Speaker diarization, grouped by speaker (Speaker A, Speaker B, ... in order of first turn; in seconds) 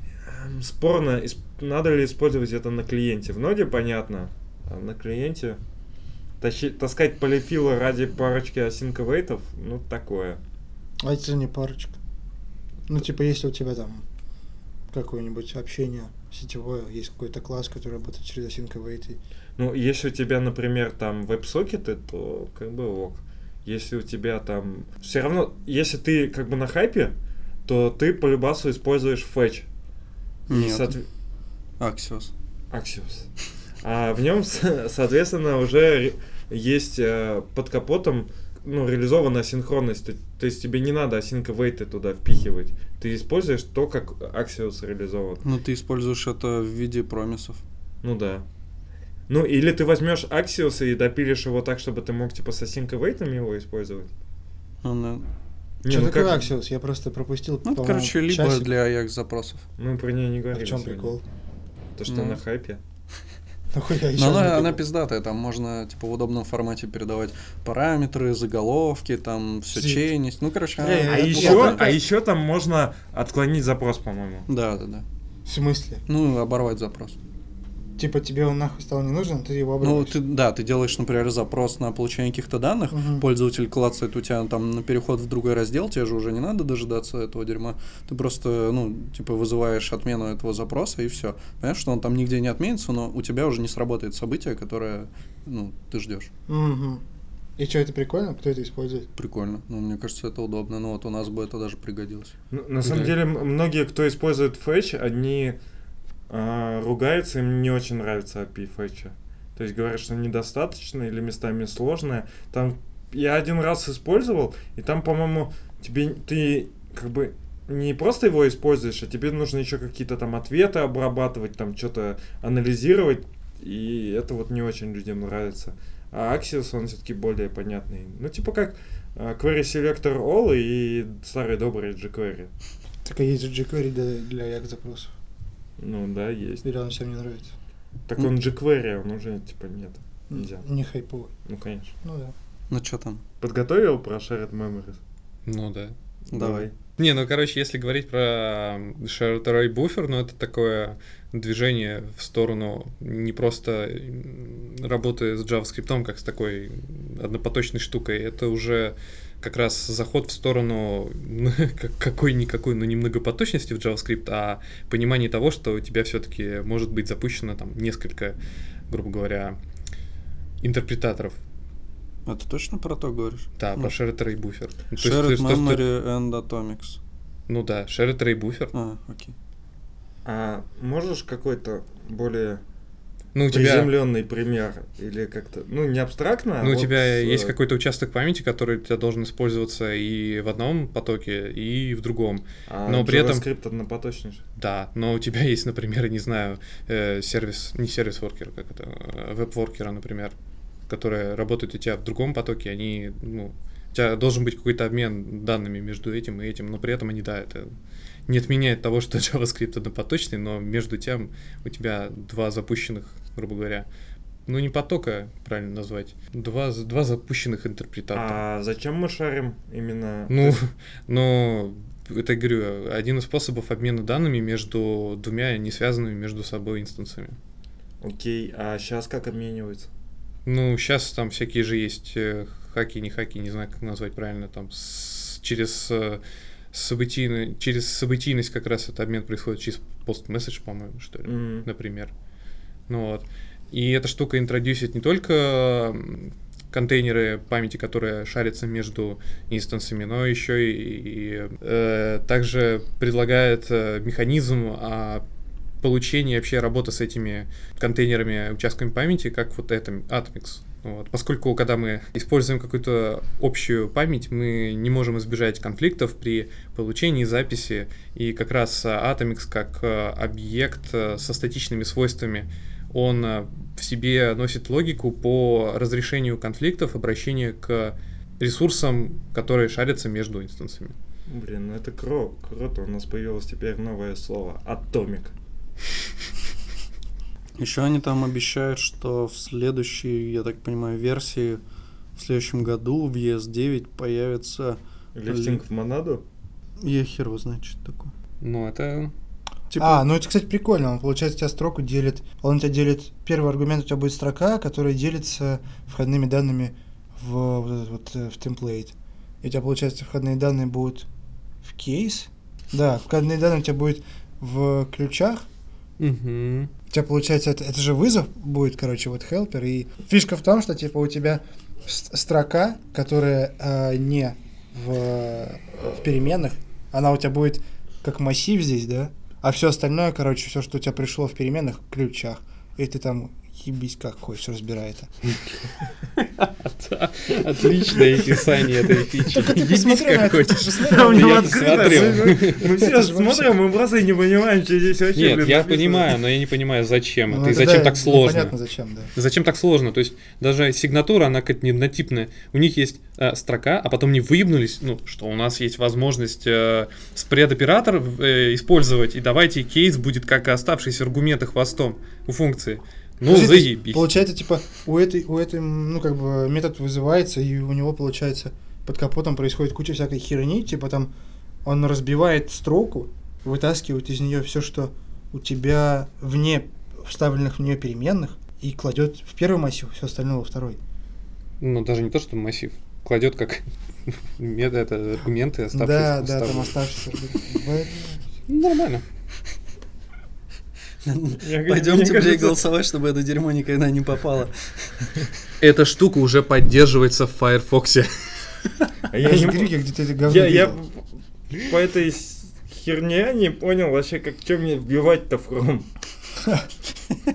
Speaker A: 0.2-5.6, 6.4-10.4, 19.6-27.1, 27.6-29.7, 30.5-31.1, 32.7-33.3, 33.8-45.4, 48.0-48.4, 49.3-54.1, 55.8-56.5, 59.8-61.1, 61.9-62.8, 70.8-74.5, 102.5-105.6, 106.3-132.5, 135.8-136.6, 138.1-140.7, 141.4-141.9, 143.4-145.0, 146.3-146.7, 180.2-182.6, 183.5-187.5, 192.7-194.4, 218.1-220.6, 228.0-229.9, 241.2-241.7, 281.3-285.3, 295.1-296.2, 340.9-346.1, 391.3-392.6, 399.1-399.7, 400.2-405.9
Speaker B: 11.0-12.0, 12.9-14.0, 14.9-19.2, 55.9-58.7, 60.5-61.2, 63.7-64.8, 69.7-70.1, 71.0-72.0, 75.4-76.0, 78.0-80.2, 82.9-83.2, 96.5-97.0, 97.6-99.1, 133.0-135.1, 136.6-137.5, 140.3-141.3, 142.0-142.3, 299.7-311.1, 311.6-315.4, 316.9-335.1, 339.3-343.5, 347.3-349.1, 363.2-371.1, 371.6-380.8, 385.7-388.2, 399.2-400.8
Speaker C: 30.5-30.9, 31.8-32.3, 45.4-47.6, 54.8-55.2, 57.6-59.6, 62.1-62.4, 64.2-71.9, 74.5-75.0, 76.1-77.2, 79.8-96.3, 99.2-102.3, 142.7-143.2, 146.3-146.7, 172.2-173.9, 175.0-177.0, 178.7-179.3, 287.6-291.6, 292.1-295.6, 296.8-298.1, 299.7-300.0, 391.0-395.0
Speaker D: 102.8-103.2, 145.4-145.9, 146.9-168.4, 168.9-169.6, 170.6-171.4, 173.6-175.8, 177.5-178.7, 183.3-183.9, 186.6-193.4, 194.6-200.3, 200.9-207.7, 208.3-213.9, 214.5-218.4, 220.3-227.4, 230.4-236.2, 236.7-242.1, 242.9-255.2, 255.8-280.9, 298.4-299.1, 316.0-316.7, 336.2-342.8, 345.1-348.5, 349.1-364.1, 381.6-386.9, 388.5-389.0, 395.6-398.7